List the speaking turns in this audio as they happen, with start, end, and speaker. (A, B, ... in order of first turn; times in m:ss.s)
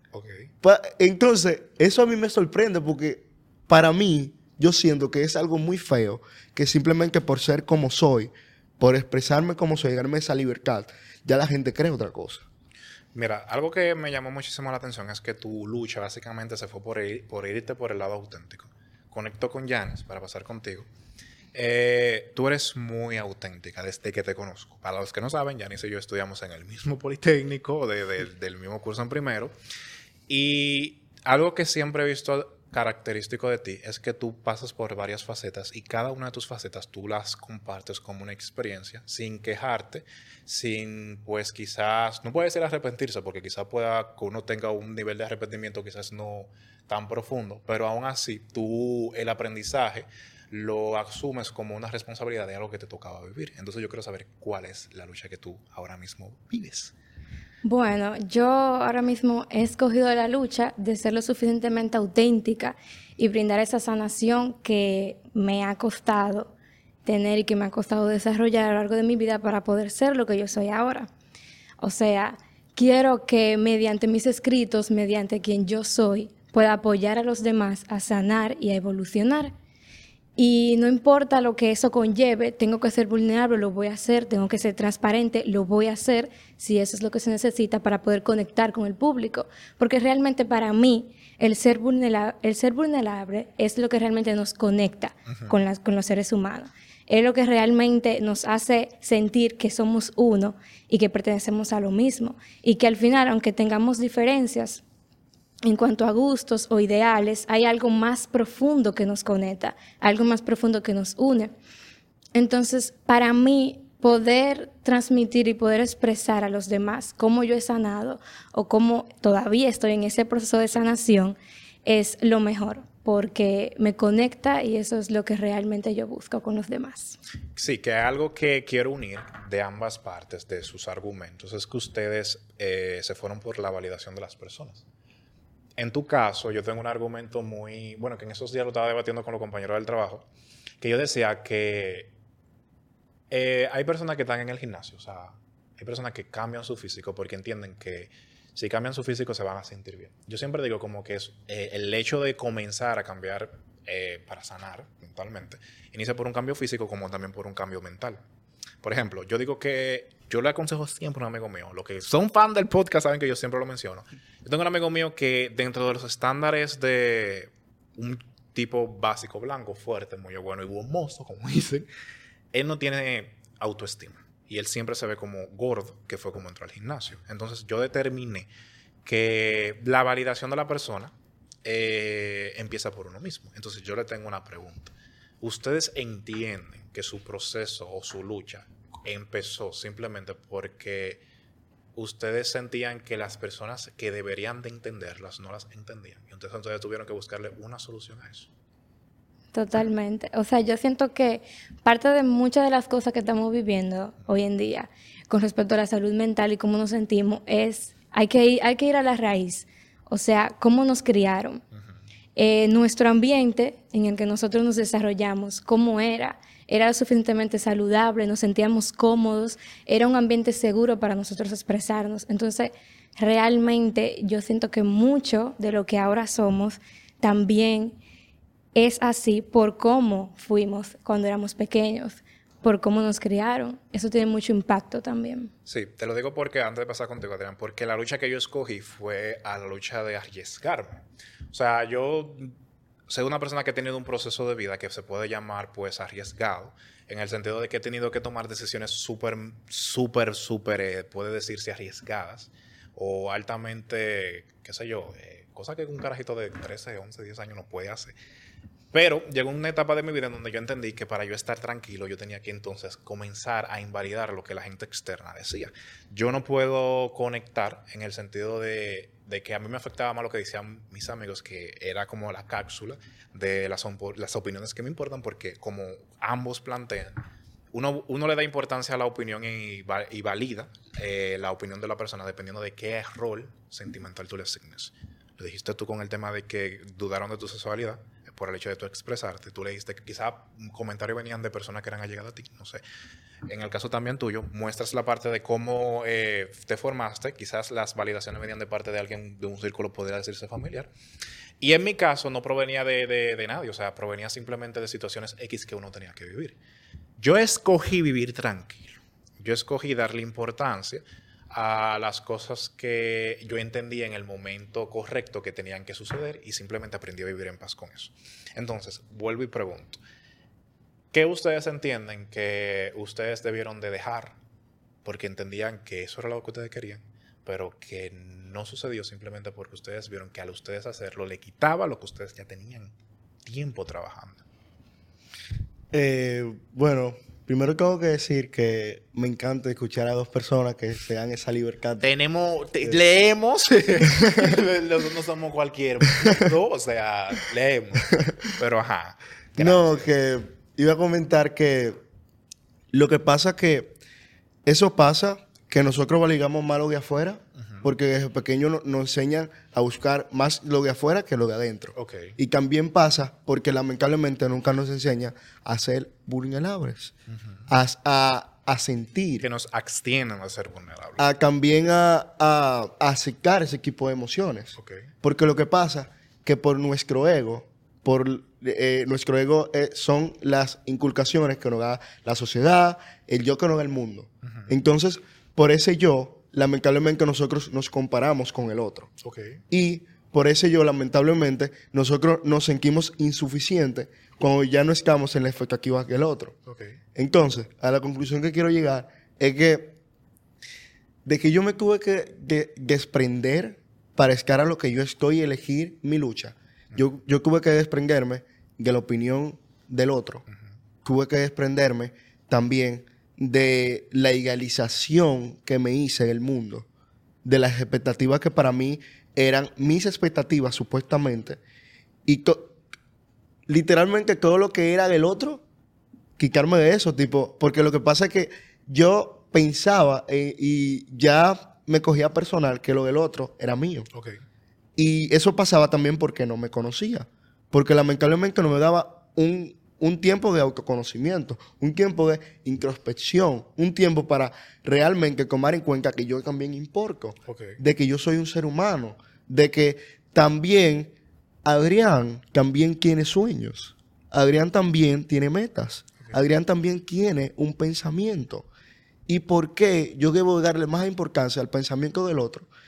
0:00.1-0:00.5 A
0:00.6-0:12.5 B
0:13.1-0:20.9 A
0:21.5-0:29.6 A
0:30.3-0:56.9 A
0:57.6-1:11.1 C
1:11.8-1:19.5 C
1:20.4-1:44.8 C
1:35.3-1:35.6 A
1:45.6-1:51.5 C
1:52.4-2:07.2 C
2:07.6-2:14.8 A
2:15.8-2:20.3 A
2:20.8-2:22.1 A
2:23.3-2:38.2 A
2:38.8-2:51.9 A
2:52.5-2:58.5 A
2:59.0-3:01.1 A
3:01.6-3:11.2 A
3:12.0-3:18.5 A
3:19.5-3:31.6 C
3:32.4-3:48.0 C
3:48.7-3:55.5 C
3:55.7-4:02.5 A
4:03.1-4:18.1 A
4:18.9-4:37.2 A
4:37.7-4:52.8 A
4:53.5-5:00.9 A
5:01.6-5:06.6 A
5:07.2-5:20.0 A
5:21.1-5:24.4 A
5:25.0-5:34.4 A
5:35.9-5:42.1 B
5:42.0-5:50.1 A
5:49.6-5:52.0 B
5:52.9-5:54.0 B
5:54.7-6:07.1 B
5:57.6-5:57.9 A
6:02.0-6:02.4 A
6:07.7-6:09.5 B
6:09.4-6:11.2 A
6:11.2-6:29.1 B
6:14.8-6:15.1 A
6:24.4-6:24.7 A
6:29.2-6:29.6 A
6:29.7-6:36.6 B
6:36.7-6:37.0 A
6:37.2-6:40.0 B
6:41.2-6:50.4 B
6:51.0-6:56.9 B
6:57.4-7:01.6 B
7:02.2-7:02.8 B
7:03.7-7:05.6 B
7:06.4-7:14.1 B
7:14.1-7:14.4 A
7:15.0-7:31.1 B
7:27.5-7:27.8 A
7:31.6-7:38.7 B
7:39.3-7:42.7 B